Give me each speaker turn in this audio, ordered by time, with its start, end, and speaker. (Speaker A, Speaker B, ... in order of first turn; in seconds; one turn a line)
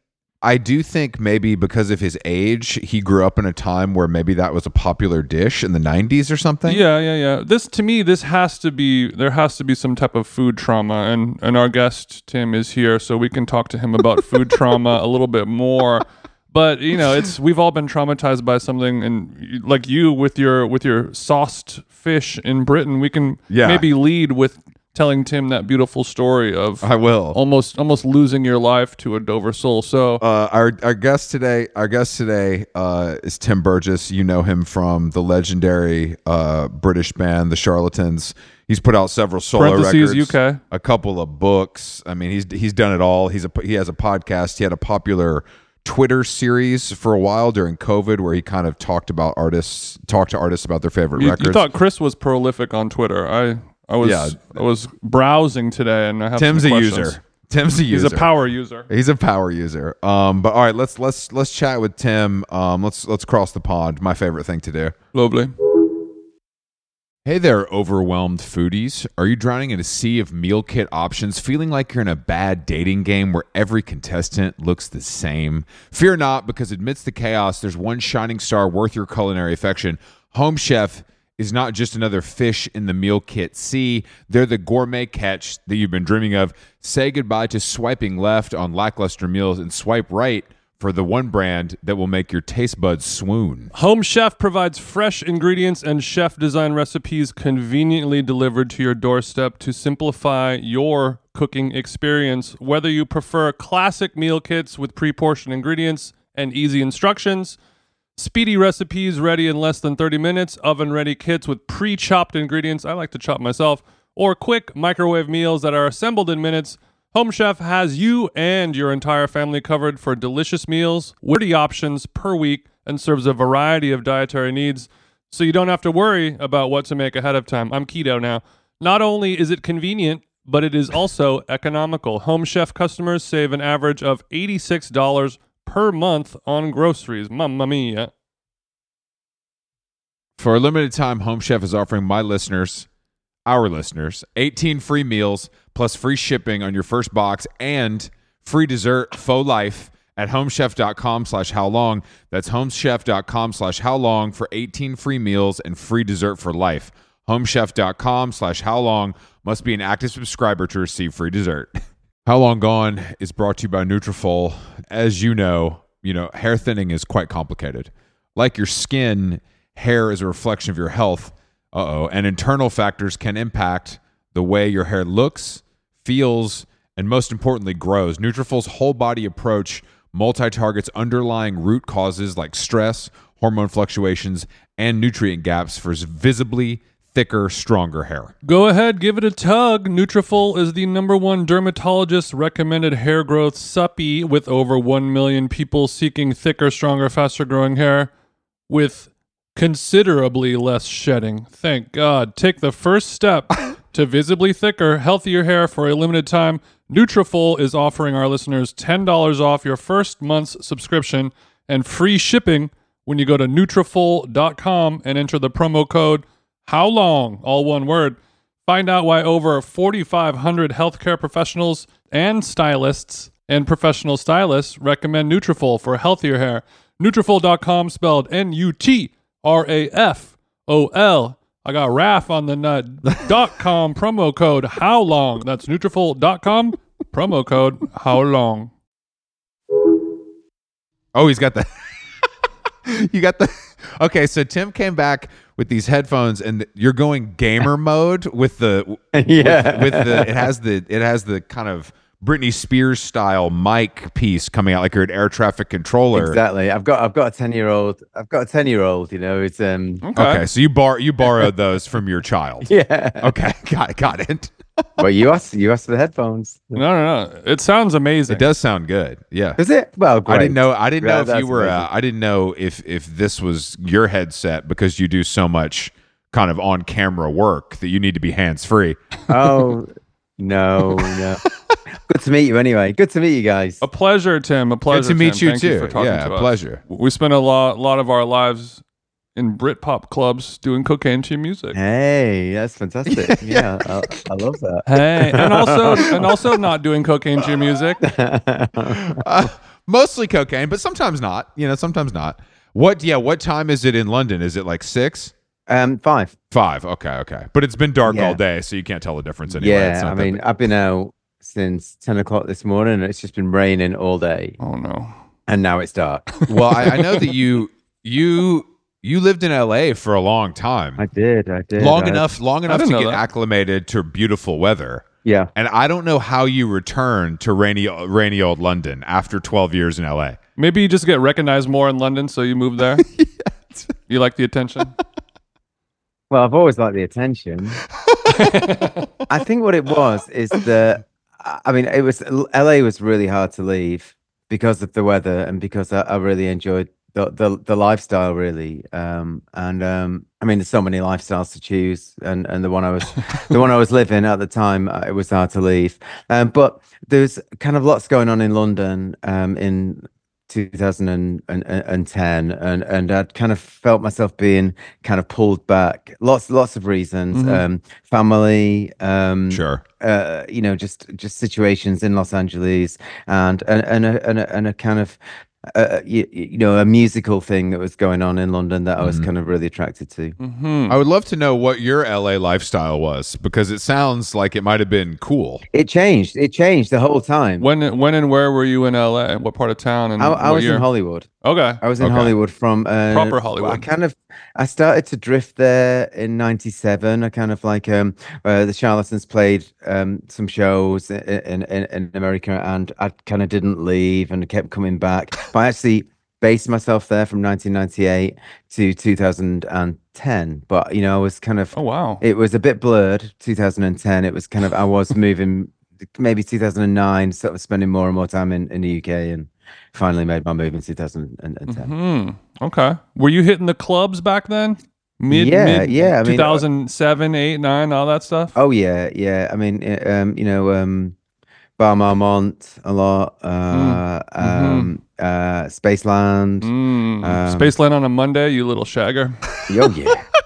Speaker A: 0.4-6.8
Speaker B: 6.7-30.2
Speaker A: 23.5-23.9
Speaker A: 26.8-27.4
Speaker A: 30.2-51.7
Speaker B: 39.5-40.6
Speaker B: 51.2-57.2
Speaker A: 54.0-54.4
Speaker A: 56.4-58.3
Speaker B: 57.9-58.9
Speaker A: 58.9-65.0
Speaker B: 65.1-65.5
Speaker A: 67.2-93.7
Speaker B: 93.7-107.6
Speaker B: 108.2-138.1
Speaker A: 140.4-142.9
Speaker A: 143.5-161.7
Speaker A: 162.2-188.3
Speaker B: 188.4-198.1
Speaker B: 198.7-238.7
Speaker A: 241.2-241.7
Speaker A: 242.8-256.4
Speaker C: 249.1-250.5
Speaker C: 256.1-260.0
Speaker B: 260.0-260.4
Speaker A: 260.1-262.7
Speaker C: 262.6-263.3
Speaker A: 263.2-264.6
Speaker C: 265.0-266.8
Speaker B: 266.8-268.5
Speaker A: 268.3-269.6
Speaker C: 269.6-271.9
Speaker A: 270.3-279.0
Speaker C: 279.3-281.4
Speaker C: 282.0-283.8
Speaker B: 283.8-288.8
Speaker A: 284.9-286.8
Speaker B: 289.4-291.8
Speaker C: 291.7-296.2
Speaker A: 293.2-293.7
Speaker B: 294.9-298.0
Speaker C: 298.0-299.2
Speaker A: 298.9-305.3
Speaker C: 305.7-306.3
Speaker A: 306.5-310.4
Speaker C: 308.1-308.4
Speaker C: 309.5-314.6
Speaker B: 314.6-315.1
Speaker C: 315.5-316.4
Speaker A: 316.5-321.0
Speaker C: 321.0-322.2
Speaker A: 321.8-325.1
Speaker B: 322.7-323.2
Speaker C: 325.2-325.5
Speaker A: 325.6-330.4
Speaker B: 330.6-333.1
Speaker A: 333.0-333.9
Speaker B: 334.1-334.9
Speaker C: 336.3-337.8
Speaker A: 338.1-338.4
Speaker B: 338.3-339.1
Speaker C: 339.3-375.2
Speaker B: 367.3-367.6
Speaker A: 369.5-369.8
Speaker C: 375.7-380.4
Speaker A: 379.0-379.3
Speaker B: 380.4-381.0
Speaker A: 380.9-385.6
Speaker C: 385.7-387.7
Speaker B: 387.6-390.9
Speaker C: 390.2-391.3
Speaker B: 391.4-391.8
Speaker C: 391.8-421.9
Speaker A: 392.0-392.3
Speaker B: 393.1-393.9
Speaker B: 411.7-412.2
Speaker B: 421.7-428.5
Speaker C: 425.3-426.6
Speaker C: 428.6-431.1
Speaker C: 431.8-436.7
Speaker B: 433.7-434.9
Speaker B: 436.6-439.5
Speaker C: 437.2-437.7
Speaker C: 439.7-440.3